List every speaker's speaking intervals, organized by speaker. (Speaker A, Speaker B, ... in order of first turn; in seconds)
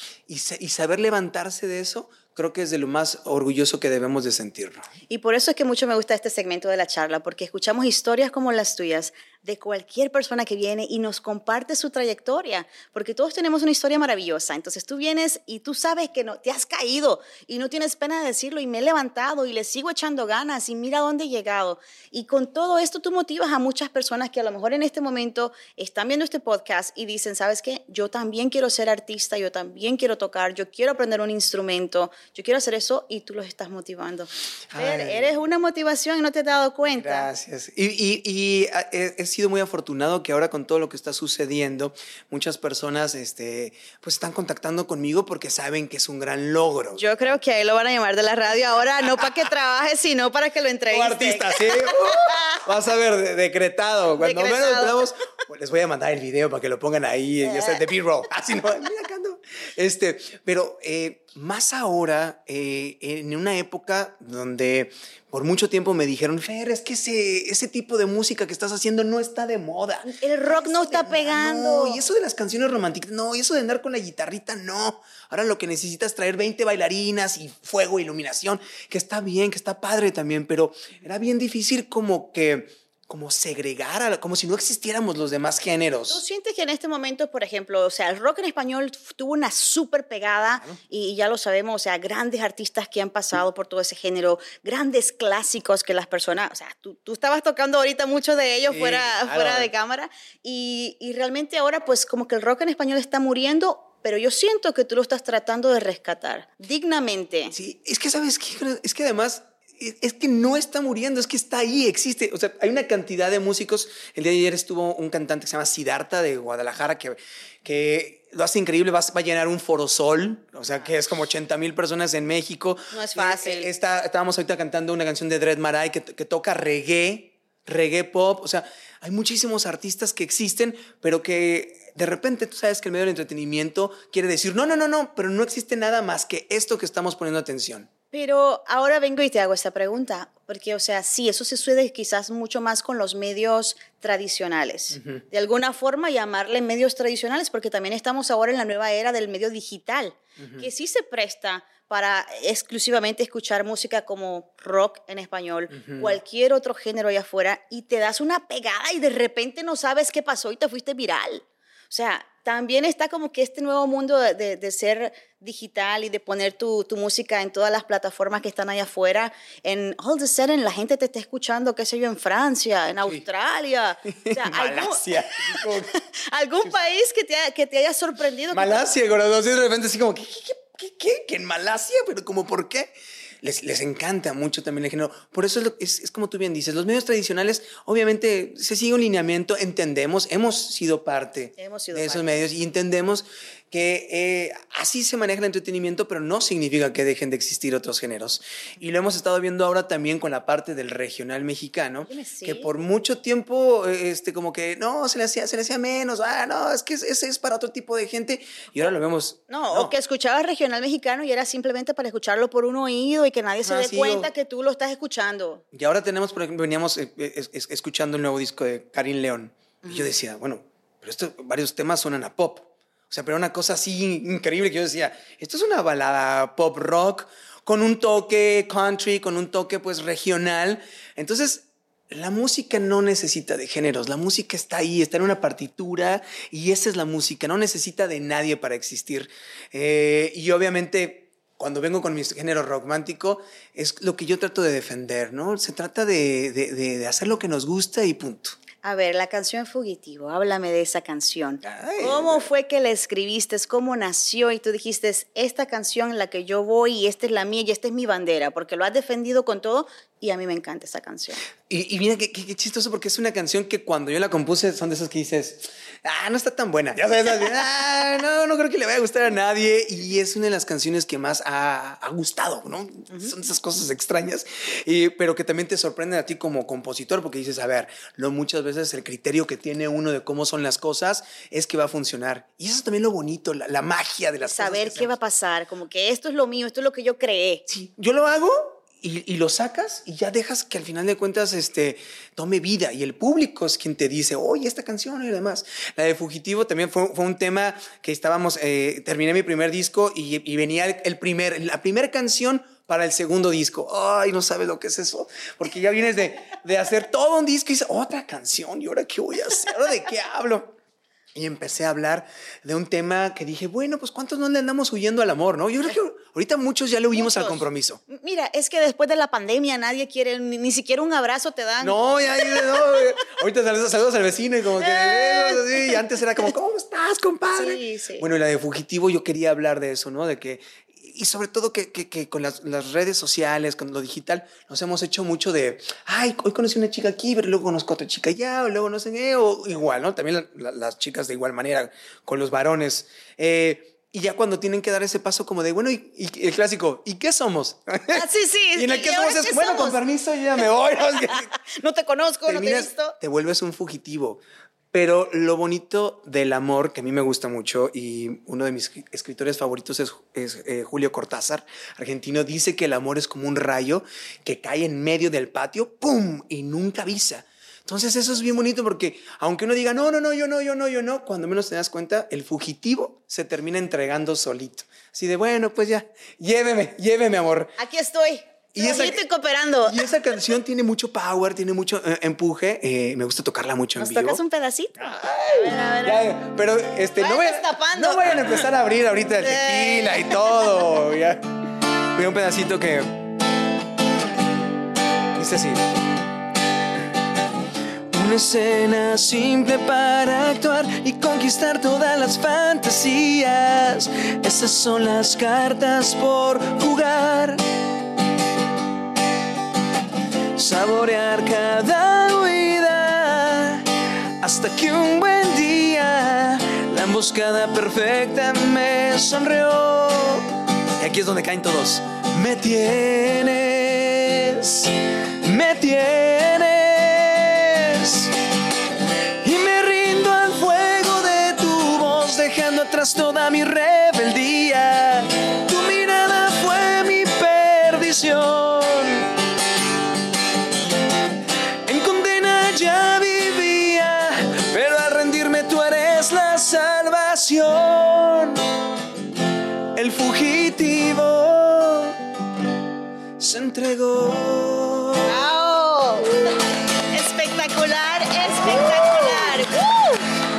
Speaker A: 0.3-4.9, 34.7-35.4, 37.0-47.1, 50.9-86.2, 98.7-99.7, 107.5-137.9, 144.9-145.2, 150.4-150.7, 155.7-156.2, 174.1-175.9, 178.5-209.9, 213.6-214.3, 215.7-248.6, 251.6-252.5, 261.7-285.1, 287.7-310.7, 311.3-318.0, 321.8-351.5, 352.5-354.4, 354.9-377.8, 378.7-379.2, 379.9-384.4, 385.0-391.4, 392.1-393.1, 395.3-395.9, 398.1-407.6, 410.5-428.4, 429.4-439.4, 441.8-448.7, 449.9-452.2, 453.4-455.3, 458.6-459.6
Speaker B: 5.1-37.3, 46.9-52.6, 54.2-55.0, 57.4-57.8, 70.0-72.0, 86.1-107.5, 122.9-123.7, 138.1-178.8, 191.6-192.4, 202.1-202.7, 209.5-215.6, 248.8-261.4, 284.4-287.6, 317.1-322.0, 324.8-326.0, 327.5-328.2, 348.1-350.0, 351.3-353.1, 377.8-380.1, 384.0-386.3, 387.2-388.7, 389.4-390.7, 455.2-460.2